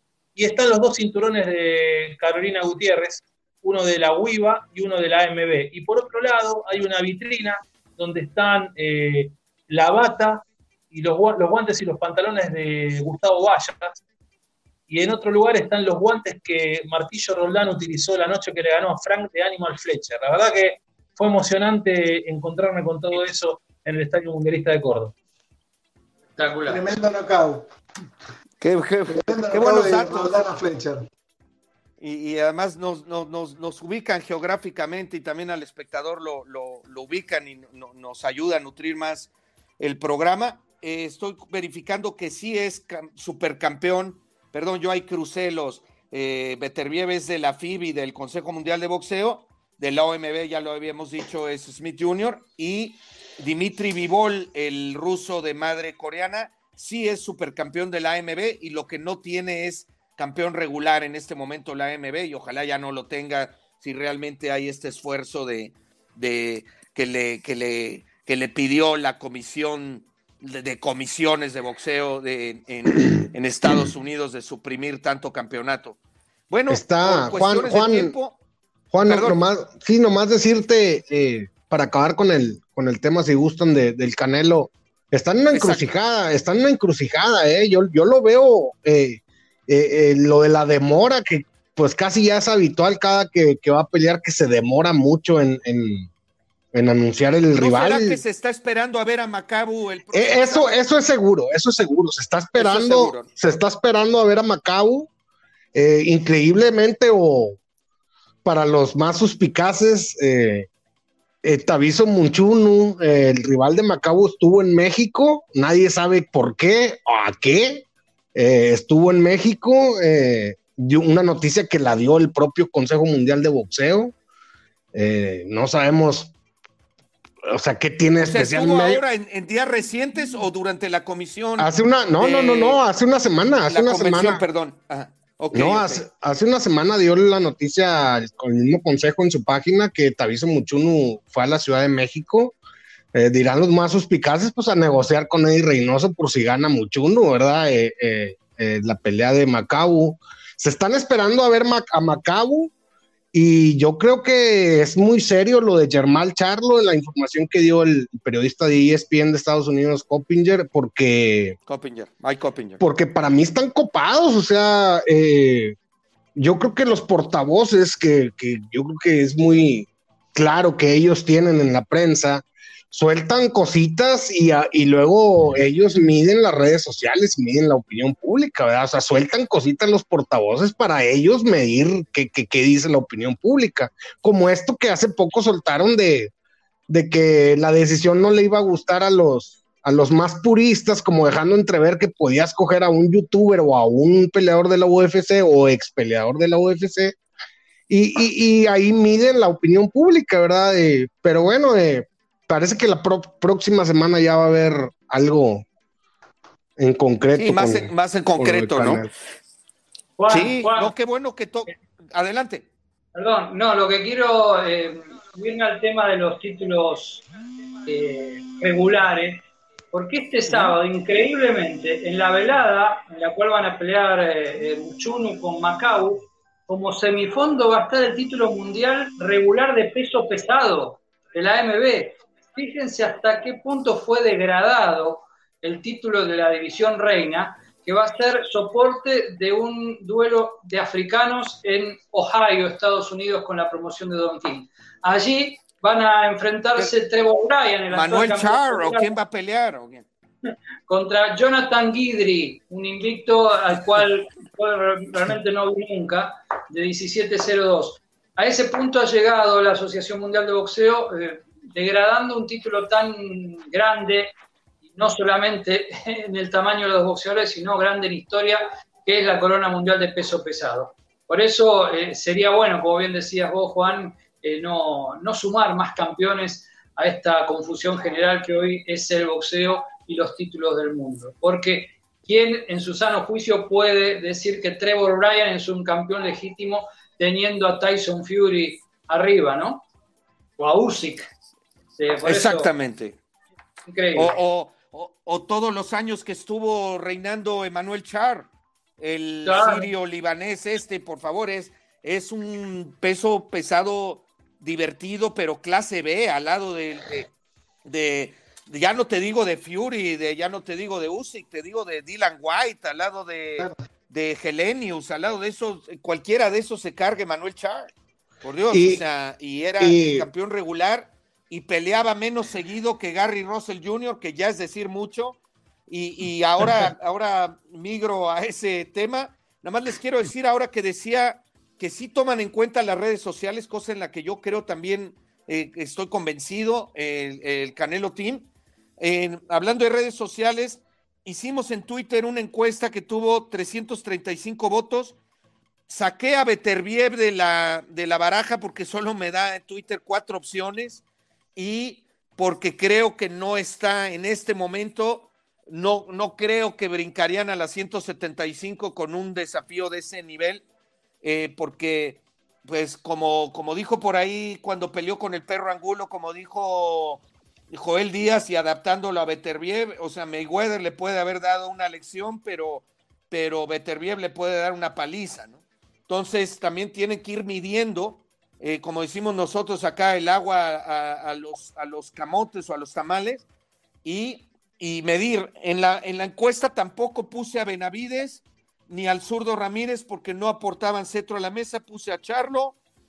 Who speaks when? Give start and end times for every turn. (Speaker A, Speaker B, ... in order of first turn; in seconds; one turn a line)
Speaker A: 0.3-14.0
Speaker A: 14.9-25.1
Speaker B: 26.4-26.8
Speaker C: 26.7-27.7
Speaker D: 28.6-30.4
Speaker C: 29.1-31.1
Speaker D: 32.0-76.0
Speaker D: 76.5-78.4
Speaker E: 76.7-78.1
Speaker E: 78.9-96.1
Speaker D: 79.0-79.4
Speaker D: 85.5-85.8
Speaker E: 96.7-98.2
Speaker D: 97.5-100.7
Speaker E: 100.1-105.1
Speaker D: 102.6-103.3
Speaker E: 105.7-107.6
Speaker E: 108.4-110.7
Speaker E: 111.4-124.1
Speaker E: 124.9-126.3
Speaker E: 127.4-129.0
Speaker D: 128.2-132.8
Speaker E: 131.6-134.4
Speaker D: 133.7-136.0
Speaker E: 135.5-142.5
Speaker E: 143.1-152.7
Speaker E: 153.3-161.6
Speaker D: 161.7-162.8
Speaker E: 162.8-165.8
Speaker E: 166.3-186.3
Speaker E: 186.9-197.2
Speaker E: 197.9-205.6
Speaker E: 206.8-209.1
Speaker D: 207.4-209.1
Speaker B: 210.2-210.9
Speaker D: 210.3-212.7
Speaker B: 213.1-217.2
Speaker B: 217.8-249.2
Speaker D: 220.5-220.7
Speaker D: 247.9-250.0
Speaker B: 250.9-264.4
Speaker B: 264.9-289.9
Speaker B: 290.6-291.3
Speaker B: 292.0-292.7
Speaker D: 292.2-293.2
Speaker B: 293.9-294.3
Speaker D: 294.1-307.3
Speaker B: 299.4-299.9
Speaker D: 307.8-317.9
Speaker D: 318.4-325.4
Speaker E: 318.7-319.0
Speaker E: 319.8-320.3
Speaker D: 325.9-338.5
Speaker D: 339.0-345.2
Speaker D: 345.9-351.0
Speaker D: 351.6-360.6
Speaker D: 361.2-383.4
Speaker D: 384.0-392.8